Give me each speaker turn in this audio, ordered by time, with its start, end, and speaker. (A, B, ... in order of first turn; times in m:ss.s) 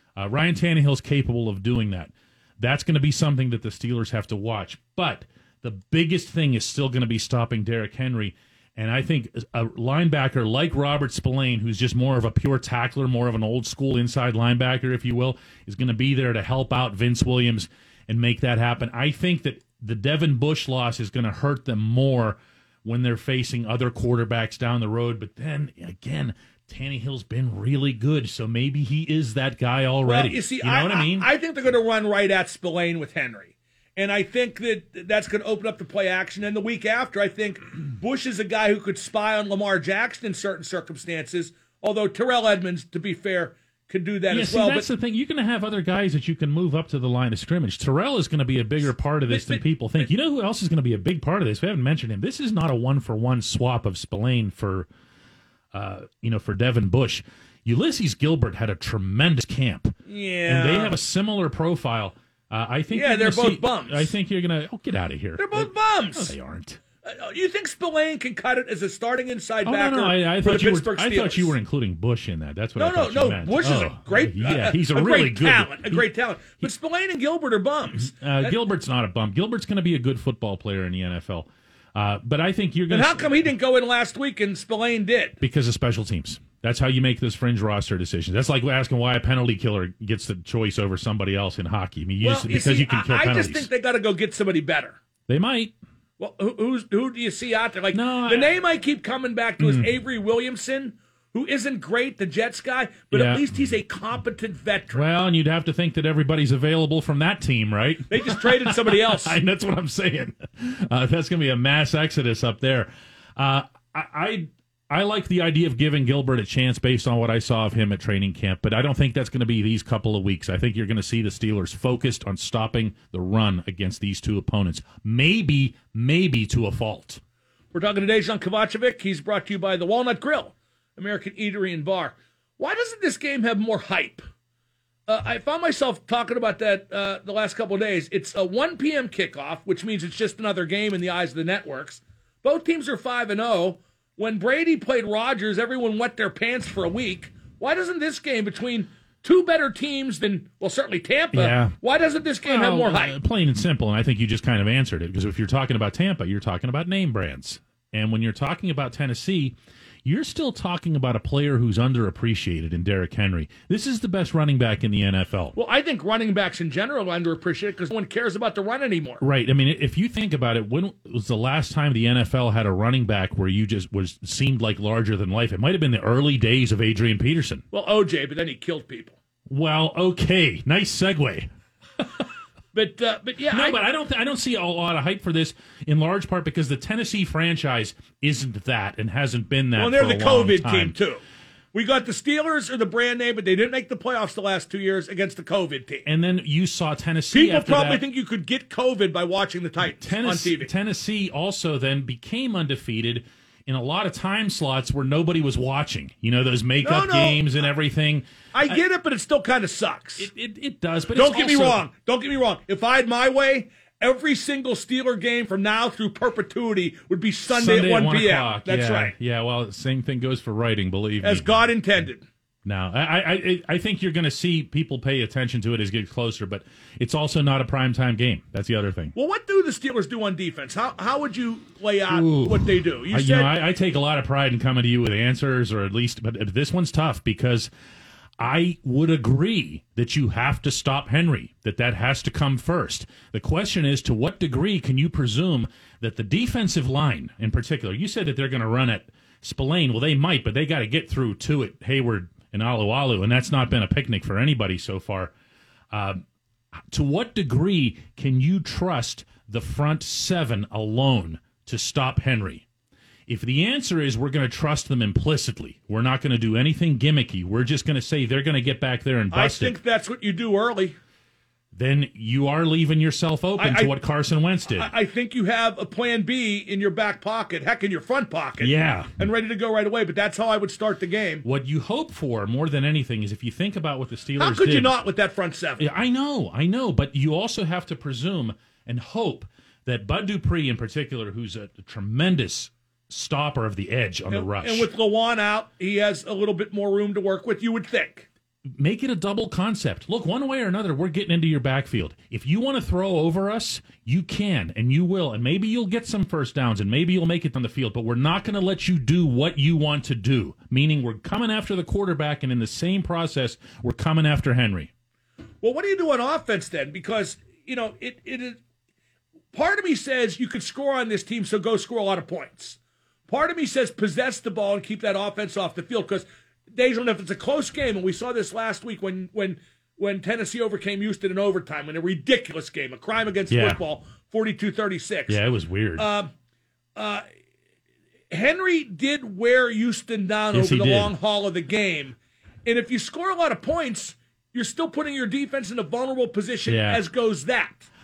0:00.2-0:31.3 A
0:30.0-0:44.9 B
0:44.3-0:54.9 A
0:49.3-0:50.1 B
0:55.7-0:59.9 A
1:00.0-1:01.0 B
1:00.4-1:06.8 A
1:02.9-1:04.1 B
1:05.4-1:06.3 B
1:07.0-1:11.6 B
1:09.6-1:16.0 A
1:12.8-1:18.6 B
1:17.9-1:23.4 A
1:22.9-1:25.4 B
1:25.4-1:33.7 A
1:32.2-1:35.0 B
1:35.3-1:35.7 A
1:36.2-1:45.0 B
1:37.9-1:38.5 A
1:39.6-1:39.9 A
1:43.1-1:43.4 A
1:44.9-2:07.2 A
1:48.1-1:49.4 B
2:07.7-2:14.2 B
2:15.1-2:33.2 B
2:31.3-2:31.7 A
2:32.4-2:45.5 A
2:45.5-2:49.2 B
2:49.2-2:57.6 A
2:57.7-2:59.2 B
2:59.5-3:01.5 A
3:02.0-3:02.3 A
3:02.7-3:03.8 B
3:03.5-3:10.9 A
3:09.8-3:11.2 B
3:11.7-3:16.0 B
3:16.0-3:18.0 A
3:17.3-3:20.7 B
3:19.8-3:28.8 A
3:26.8-3:27.5 B
3:28.5-3:30.3 B
3:30.2-3:31.8 A
3:31.1-3:39.1 B
3:37.5-3:41.7 A
3:41.2-3:42.2 B
3:42.6-3:49.1 A
3:49.1-3:53.5 B
3:52.1-3:57.7 A
3:58.4-4:15.3 A
4:15.9-4:16.2 A
4:16.9-4:22.6 A
4:23.3-4:29.8 A
4:29.3-4:30.9 B
4:31.7-4:34.9 A
4:33.6-4:33.9 B
4:34.7-4:41.4 B
4:38.6-4:39.2 A
4:41.4-4:45.0 A
4:44.4-4:45.9 B
4:45.8-4:54.9 A
4:54.3-4:58.3 B
4:58.8-5:14.9 A
5:15.6-5:18.6 B
5:19.5-5:35.4 B
5:33.5-5:33.8 A
5:35.3-5:36.1 A
5:36.0-5:36.3 B
5:37.0-5:37.2 B
5:38.3-5:47.9 B
5:40.5-5:41.1 A
5:46.6-5:47.0 A